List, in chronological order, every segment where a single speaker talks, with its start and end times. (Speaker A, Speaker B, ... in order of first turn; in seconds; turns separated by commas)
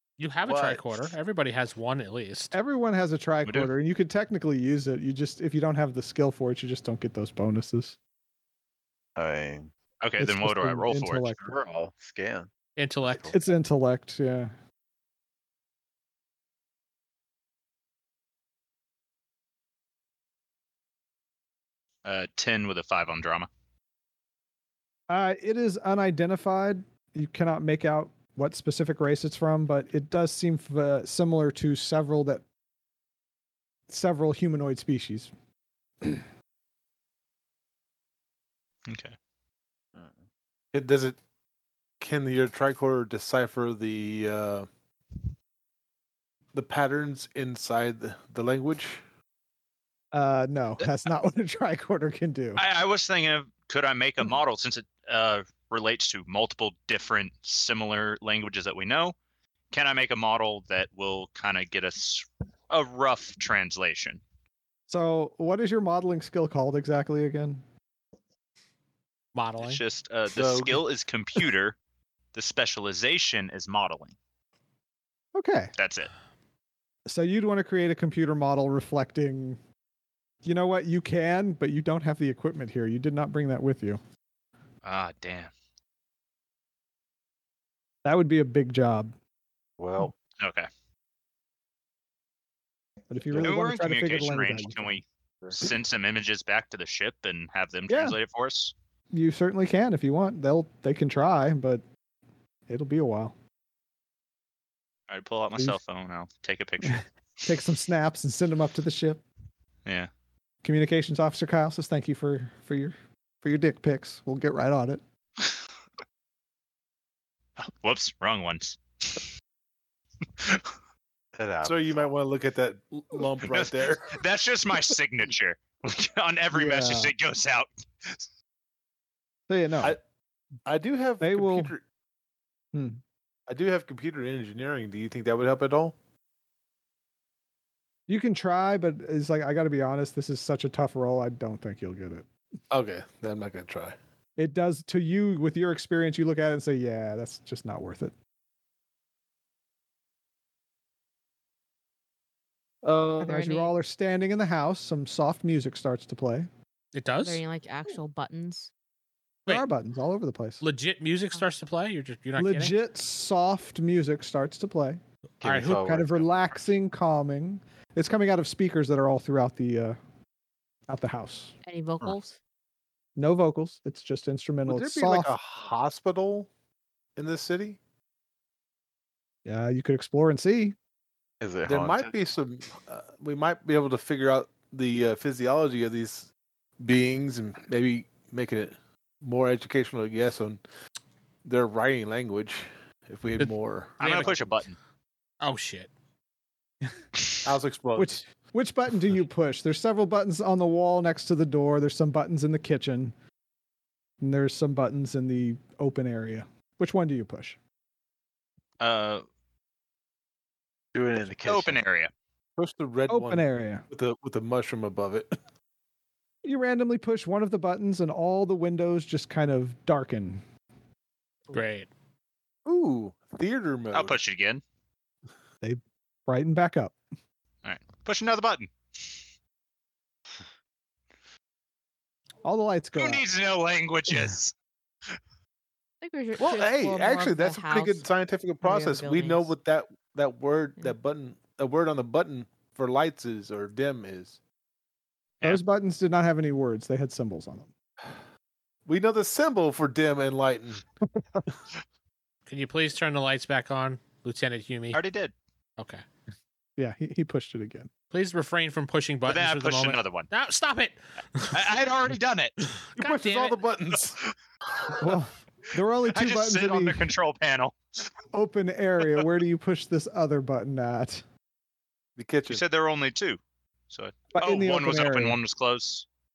Speaker A: 0.2-2.5, Speaker B: 0.5-1.1, Speaker C: 2.5-8.0, Speaker D: 3.5-3.7, Speaker B: 9.2-9.7, Speaker D: 10.0-11.3, Speaker C: 10.2-11.5, Speaker B: 11.4-12.5, Speaker A: 12.8-13.3, Speaker B: 13.0-13.4, Speaker C: 13.3-14.5, Speaker D: 22.0-23.5, Speaker C: 25.1-32.4, Speaker C: 33.9-35.3, Speaker D: 38.9-39.2, Speaker B: 40.0-40.2, Speaker E: 40.7-41.2, Speaker E: 42.0-44.7, Speaker E: 46.5-49.0, Speaker C: 50.1-52.6, Speaker D: 52.6-59.1, Speaker D: 59.7-64.2, Speaker C: 64.9-67.6, Speaker A: 69.3-69.8, Speaker D: 69.6-71.8, Speaker E: 70.3-70.9, Speaker D: 72.3-74.2, Speaker C: 75.3-75.7, Speaker D: 75.8-76.1, Speaker C: 77.1-79.6, Speaker C: 80.4-84.0, Speaker D: 84.8-85.5, Speaker C: 88.0-89.2, Speaker B: 89.8-90.1, Speaker D: 90.4-90.7, Speaker C: 93.1-95.0, Speaker D: 93.4-98.7, Speaker C: 97.9-98.2, Speaker C: 99.1-101.8, Speaker C: 102.7-103.4, Speaker D: 105.1-107.0, Speaker C: 106.8-109.2, Speaker C: 110.6-115.0, Speaker D: 117.6-119.3, Speaker D: 120.4-120.7, Speaker B: 121.4-122.1, Speaker E: 121.6-124.2, Speaker D: 123.4-128.2, Speaker C: 126.5-127.1, Speaker C: 129.5-130.0, Speaker E: 130.7-131.8, Speaker C: 131.2-131.7, Speaker C: 132.7-133.0, Speaker E: 133.5-135.9, Speaker C: 138.1-142.3, Speaker E: 142.7-144.0, Speaker C: 144.4-148.1, Speaker E: 152.8-153.3, Speaker F: 153.2-153.8, Speaker C: 153.2-156.5, Speaker A: 156.9-157.4, Speaker F: 157.2-158.7, Speaker C: 159.5-160.6, Speaker A: 160.6-162.8, Speaker C: 162.4-165.0, Speaker B: 165.4-166.6, Speaker A: 165.4-165.9, Speaker C: 165.7-170.0, Speaker C: 170.9-171.6, Speaker F: 171.6-172.4, Speaker C: 173.2-175.3, Speaker E: 174.7-176.5, Speaker E: 177.2-177.8, Speaker C: 179.4-180.8, Speaker B: 181.4-182.2, Speaker E: 181.7-186.3, Speaker E: 186.8-190.6, Speaker E: 191.4-193.9, Speaker A: 193.4-194.5, Speaker D: 194.0-194.8, Speaker A: 195.4-195.9, Speaker E: 197.4-198.2, Speaker C: 198.0-203.1, Speaker C: 204.2-207.6, Speaker D: 208.8-209.2, Speaker B: 210.9-211.8, Speaker D: 211.4-212.1, Speaker E: 212.6-215.3, Speaker C: 213.1-213.8, Speaker C: 216.4-220.4, Speaker A: 221.5-221.9, Speaker E: 222.7-224.2, Speaker D: 223.9-224.6, Speaker C: 225.6-227.0, Speaker D: 227.6-229.2, Speaker C: 232.4-233.2, Speaker D: 233.0-234.5, Speaker F: 236.0-238.1, Speaker E: 236.4-244.4, Speaker F: 238.6-239.5, Speaker C: 245.4-247.7, Speaker E: 248.9-250.8, Speaker C: 251.1-251.4, Speaker A: 252.5-255.0, Speaker D: 254.9-255.3, Speaker A: 255.8-256.0, Speaker C: 256.8-257.9, Speaker A: 258.1-261.6, Speaker D: 259.3-260.3, Speaker D: 261.5-262.6, Speaker A: 263.0-263.6, Speaker E: 263.0-264.2, Speaker C: 265.0-267.1, Speaker D: 266.1-267.8, Speaker C: 268.3-271.2, Speaker E: 272.2-272.6, Speaker D: 272.5-273.4, Speaker D: 273.9-276.1, Speaker C: 274.3-275.4